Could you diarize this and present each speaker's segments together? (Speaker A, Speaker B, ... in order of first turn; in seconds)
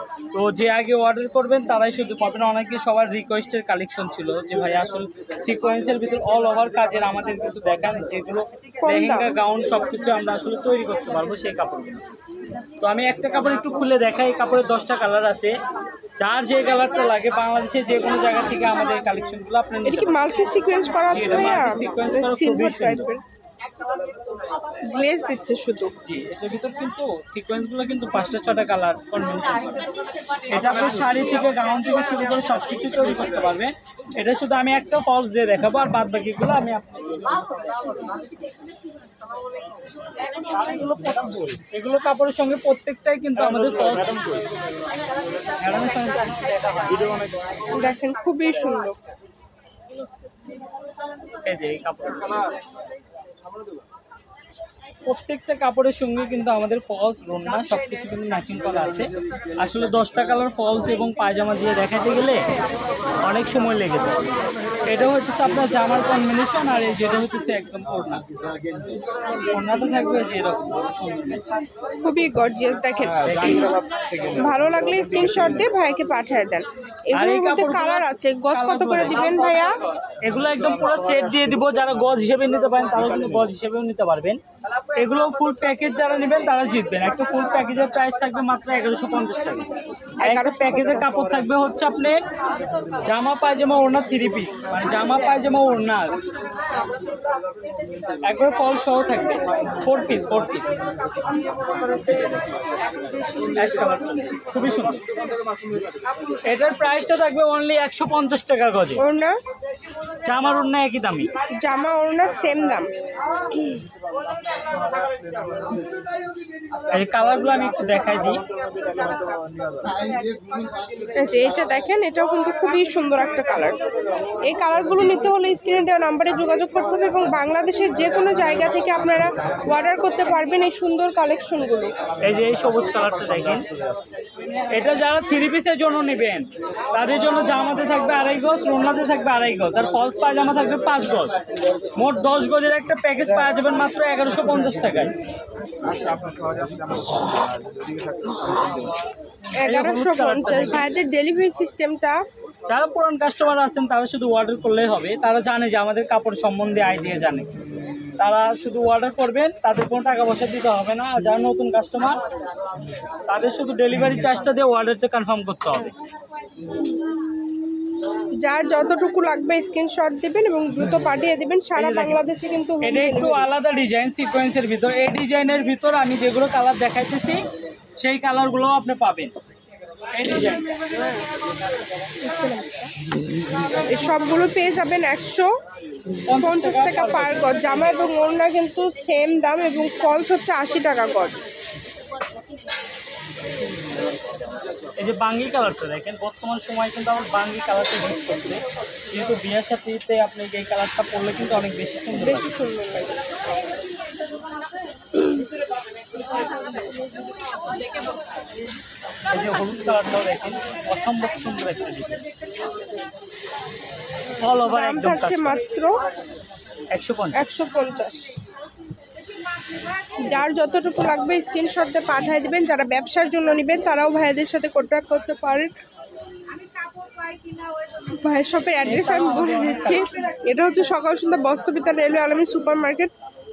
Speaker A: 0.3-12.0, 12.8-15.6, 16.2-20.2, 21.1-23.1, 26.0-29.7, 30.5-37.2, 40.6-44.4, 45.6-47.0, 51.5-52.2, 55.1-62.4, 63.2-64.2, 64.9-68.2, 69.5-71.4, 73.2-73.8, 77.2-79.4, 80.2-84.4, 85.0-89.7, 90.2-92.2, 93.0-96.1, 98.3-100.7, 103.5-105.0, 106.5-109.0, 110.2-111.3, 116.9-118.4, 132.2-133.7, 134.7-141.3, 142.0-145.1, 149.6-150.9, 152.7-157.5, 158.2-162.2, 163.3-165.9, 171.8-172.2, 172.8-177.4, 178.0-179.3, 180.2-180.7, 186.3-188.1, 195.0-202.5, 209.3-212.2, 214.4-215.6, 216.9-217.5, 228.8-230.1
Speaker B: 8.8-9.3, 19.9-23.2, 24.9-25.9, 47.7-49.0, 72.0-73.7, 74.3-79.7, 90.2-91.1, 109.0-109.3, 111.6-112.9, 121.2-123.8, 124.5-131.9, 149.6-152.2, 168.4-173.5, 182.2-182.9, 183.9-185.5, 186.4-191.4, 202.2-203.2, 214.6-215.9, 217.3-218.3, 220.2-225.7, 228.1-233.1